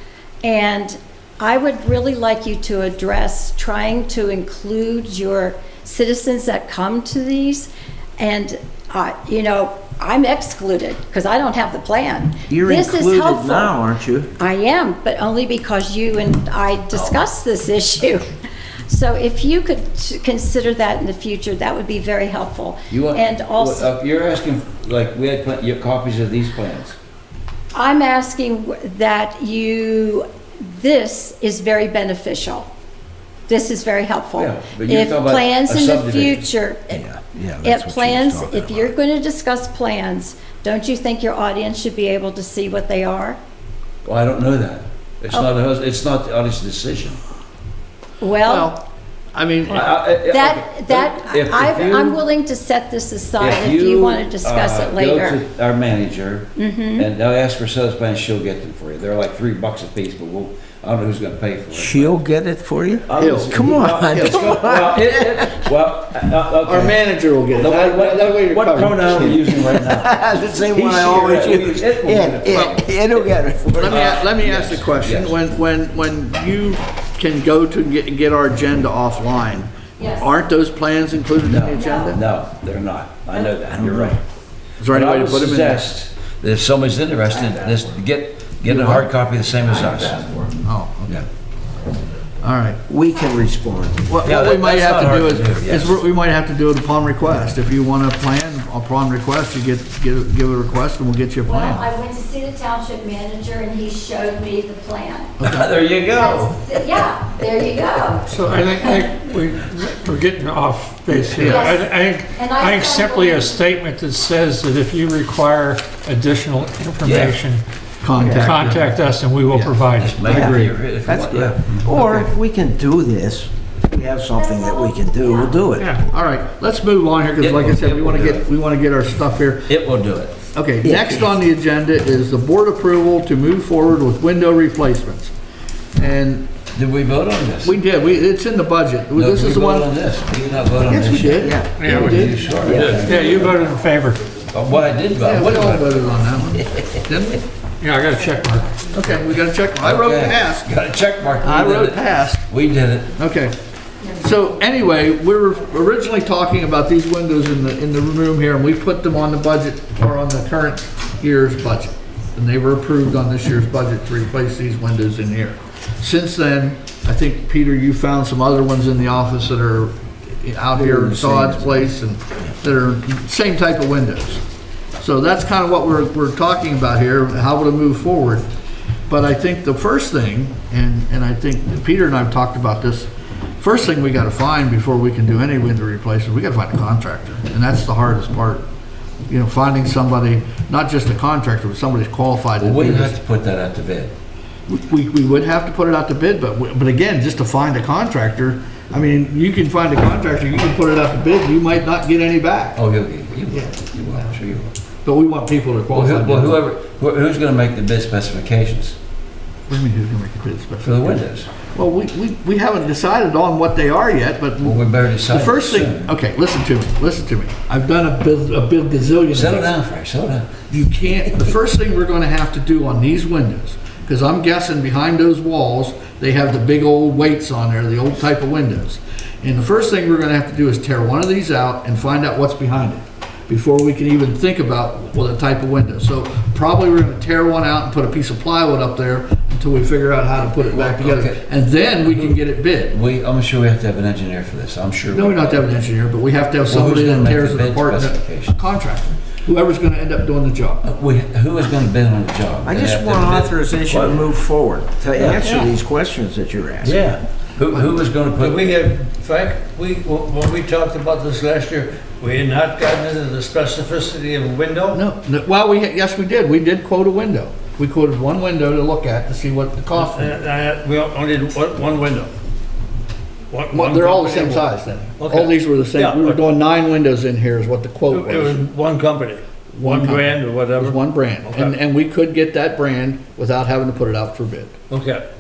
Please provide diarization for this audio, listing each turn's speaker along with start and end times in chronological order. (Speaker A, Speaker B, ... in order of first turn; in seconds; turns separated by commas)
Speaker A: 0.4-13.8, Speaker B: 12.5-14.3, Speaker A: 14.4-18.2, Speaker A: 18.9-23.9, Speaker C: 22.9-27.0, Speaker A: 27.7-32.7, Speaker A: 33.5-37.0, Speaker C: 34.4-36.5, Speaker B: 36.9-38.9, Speaker A: 37.6-43.4, Speaker C: 44.0-47.2, Speaker A: 48.2-48.7, Speaker D: 48.5-48.8, Speaker D: 49.3-49.9, Speaker C: 49.7-52.2, Speaker A: 50.1-55.4, Speaker C: 53.4-62.2, Speaker A: 56.6-57.1, Speaker B: 61.7-65.7, Speaker C: 63.0-67.0, Speaker D: 63.2-63.5, Speaker D: 64.2-64.5, Speaker D: 66.6-69.4, Speaker C: 67.5-75.3, Speaker B: 69.2-74.0, Speaker D: 70.8-71.5, Speaker D: 72.5-72.8, Speaker D: 73.7-82.2, Speaker A: 80.0-80.3, Speaker C: 81.4-84.2, Speaker A: 81.8-82.0, Speaker B: 83.8-84.2, Speaker D: 84.8-85.9, Speaker C: 84.9-90.5, Speaker D: 88.7-89.1, Speaker D: 90.6-91.2, Speaker D: 92.4-92.8, Speaker B: 92.9-94.1, Speaker D: 94.1-101.9, Speaker C: 94.2-96.0, Speaker A: 101.5-105.3, Speaker D: 105.4-105.7, Speaker C: 105.4-106.8, Speaker A: 106.1-108.3, Speaker E: 108.3-117.6, Speaker D: 111.2-111.7, Speaker A: 111.4-113.7, Speaker C: 117.0-117.4, Speaker D: 118.0-118.9, Speaker E: 118.2-120.7, Speaker C: 119.8-122.3, Speaker B: 120.2-125.9, Speaker D: 121.9-122.2, Speaker A: 124.3-125.6, Speaker E: 125.8-126.0, Speaker D: 126.1-129.7, Speaker C: 127.4-128.4, Speaker C: 129.7-130.3, Speaker D: 130.5-135.3, Speaker B: 130.8-131.3, Speaker D: 136.0-136.5, Speaker C: 136.7-137.8, Speaker D: 137.6-139.9, Speaker C: 139.1-143.6, Speaker B: 140.9-141.8, Speaker D: 141.0-142.6, Speaker E: 141.8-144.2, Speaker B: 142.6-143.1, Speaker C: 144.5-145.9, Speaker D: 145.2-147.4, Speaker E: 147.8-148.8, Speaker D: 148.9-150.7, Speaker C: 149.8-153.2, Speaker D: 151.4-152.5, Speaker D: 153.2-153.6, Speaker D: 154.2-174.4, Speaker B: 170.8-171.8, Speaker D: 175.0-178.5, Speaker D: 179.1-188.7, Speaker D: 189.3-193.2, Speaker C: 192.6-194.2, Speaker D: 194.7-202.8, Speaker C: 202.8-204.7, Speaker D: 205.1-206.6, Speaker C: 205.9-209.0, Speaker D: 209.7-219.7, Speaker C: 210.8-211.5, Speaker C: 214.6-216.1, Speaker C: 219.3-220.5, Speaker D: 220.7-243.0, Speaker C: 240.4-241.4, Speaker C: 242.9-245.8, Speaker D: 245.1-250.8, Speaker C: 246.7-248.7, Speaker C: 250.8-254.3, Speaker B: 252.6-257.0, Speaker C: 255.0-255.7, Speaker C: 256.8-258.7, Speaker F: 258.4-265.0, Speaker D: 264.9-270.3, Speaker F: 270.0-272.3, Speaker F: 273.5-274.6, Speaker D: 273.7-278.7, Speaker F: 275.2-276.5, Speaker F: 278.1-281.7, Speaker D: 279.8-284.8, Speaker F: 284.9-285.3